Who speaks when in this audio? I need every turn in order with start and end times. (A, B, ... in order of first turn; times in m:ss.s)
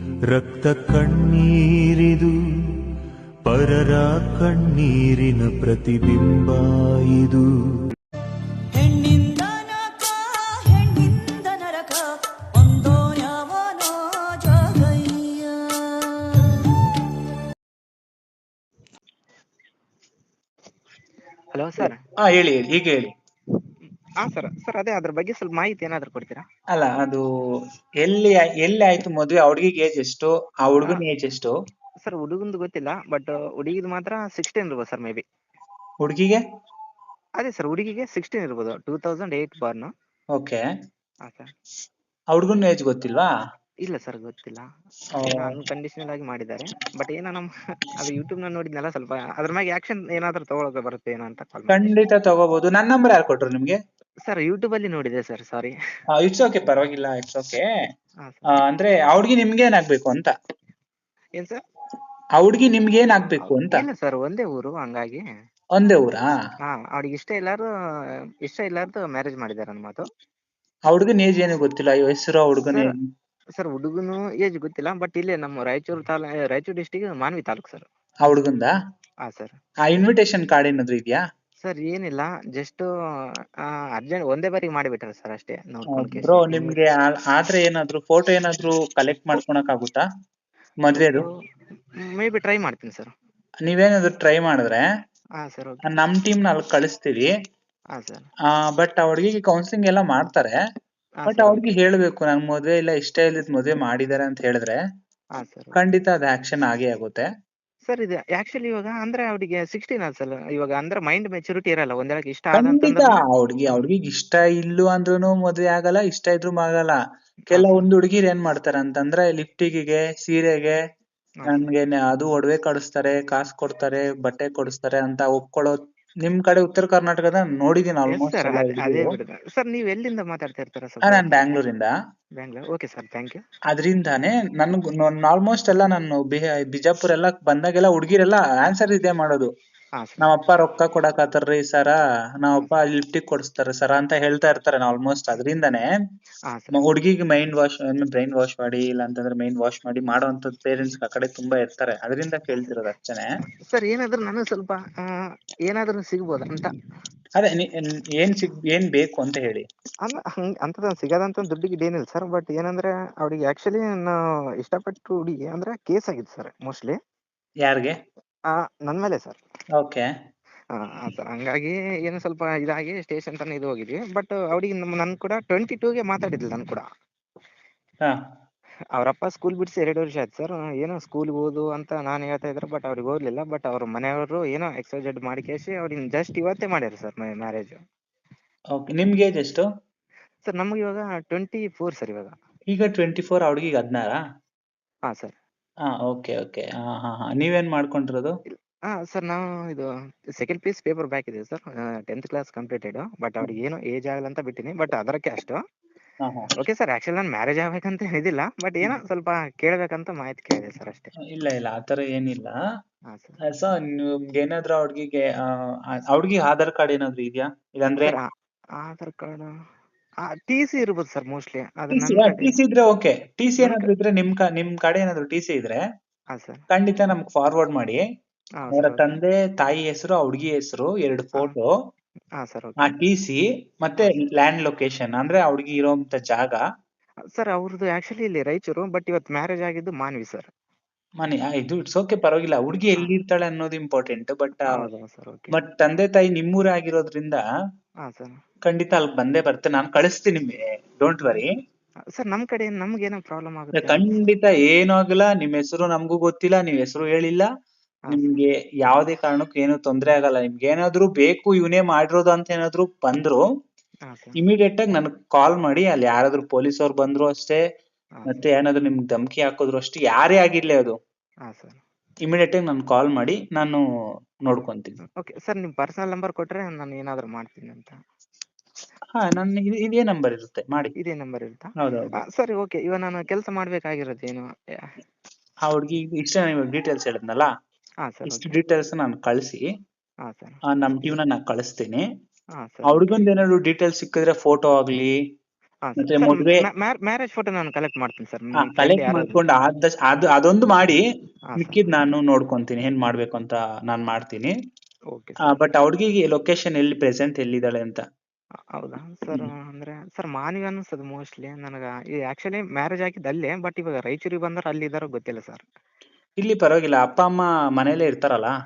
0:00.3-0:02.3 A
0:03.4-0:07.5 A
0:08.7-0:16.6 A
0:21.5-0:22.0 B
0:21.8-0:23.1 C
0:24.2-0:26.4 B
0:26.7-0:27.2 C
0:28.0-0:31.5 C
0:32.0-0:35.2 B
0:36.0-0:36.4 C
0:37.4-0:39.9 B
0:40.3-0:40.6 C
0:42.3-0:43.3 C
0:43.8-0:44.6 B
0:45.2-0:45.5 C
0:45.2-0:51.9 B
0:51.7-0:53.8 C
0:54.2-0:55.7 B
0:56.2-0:57.6 C
0:58.2-0:58.6 B
0:58.5-1:00.3 C
1:02.4-1:03.8 C
1:03.4-1:05.2 B
1:05.8-1:06.3 C
1:06.7-1:07.7 B
1:08.4-1:10.0 B
1:10.9-1:13.0 C
1:12.6-1:12.9 B
1:13.6-1:17.9 B
1:18.2-1:18.7 C
1:19.2-1:19.6 B
1:19.9-1:21.2 C
1:21.6-1:22.9 B
1:24.0-1:26.8 B
1:25.9-1:30.0 C
1:30.8-1:31.3 C
1:30.9-1:31.3 B
1:32.0-1:33.1 B
1:33.6-1:34.8 C
1:35.4-1:35.8 B
1:35.8-1:37.3 C
1:37.9-1:38.3 B
1:38.6-1:40.5 C
1:41.2-1:41.7 B
1:41.3-1:44.8 C
1:45.4-1:45.8 B
1:45.8-1:47.2 C
1:47.9-1:53.9 B
1:52.6-1:57.0 C
1:57.5-1:57.9 B
1:57.5-2:00.8 C
2:01.4-2:01.7 B
2:01.5-2:09.1 C
2:08.1-2:11.6 B
2:11.0-2:11.9 C
2:12.4-2:13.4 B
2:13.7-2:19.5 C
2:20.0-2:20.3 B
2:20.2-2:25.8 C
2:26.5-2:26.8 B
2:26.7-2:33.2 C
2:33.7-2:36.7 B
2:37.4-2:39.6 C
2:40.0-2:47.0 B
2:47.6-2:48.0 C
2:48.5-2:49.4 B
2:49.8-2:50.0 C
2:50.7-2:56.8 B
2:58.9-3:07.8 B
3:08.7-3:09.6 C
3:10.4-3:12.3 B
3:12.7-3:14.2 C
3:15.1-3:15.4 B
3:15.9-3:18.3 C
3:18.5-3:25.6 B
3:26.2-3:26.5 C
3:26.6-3:31.1 B
3:31.3-3:32.5 C
3:33.1-3:33.4 B
3:33.5-3:38.2 C
3:38.8-3:39.5 B
3:40.3-3:42.6 B
3:41.9-3:45.8 C
3:43.6-3:43.9 B
3:46.3-3:46.6 B
3:46.7-3:48.0 C
3:48.6-3:49.2 B
3:48.7-3:51.7 C
3:52.4-3:53.0 B
3:52.8-3:56.6 C
3:57.3-4:00.5 B
4:01.2-4:04.7 C
4:04.6-4:05.6 B
4:05.5-4:07.4 C
4:08.0-4:08.4 B
4:08.7-4:11.5 C
4:12.1-4:14.2 B
4:13.7-4:17.5 C
4:18.1-4:18.4 B
4:18.1-4:23.4 C
4:24.1-4:24.4 B
4:24.4-4:27.6 C
4:28.3-4:31.0 C
4:31.5-4:31.8 B
4:32.2-4:33.8 C
4:34.5-4:35.0 C
4:35.2-4:37.9 B
4:39.1-4:40.9 C
4:41.0-4:41.7 B
4:41.8-4:42.1 C
4:42.3-4:44.5 B
4:45.7-4:47.5 C
4:48.0-4:48.6 B
4:48.3-4:49.6 C
4:50.2-4:50.6 B
4:50.7-4:52.0 C
4:52.6-4:53.2 B
4:52.8-4:55.1 C
4:55.8-4:59.4 B
4:56.0-4:56.6 C
4:58.6-5:01.0 C
5:01.5-5:02.0 B
5:01.6-5:04.5 C
5:05.1-5:05.6 B
5:05.4-5:08.0 C
5:08.8-5:15.6 B
5:16.4-5:18.5 C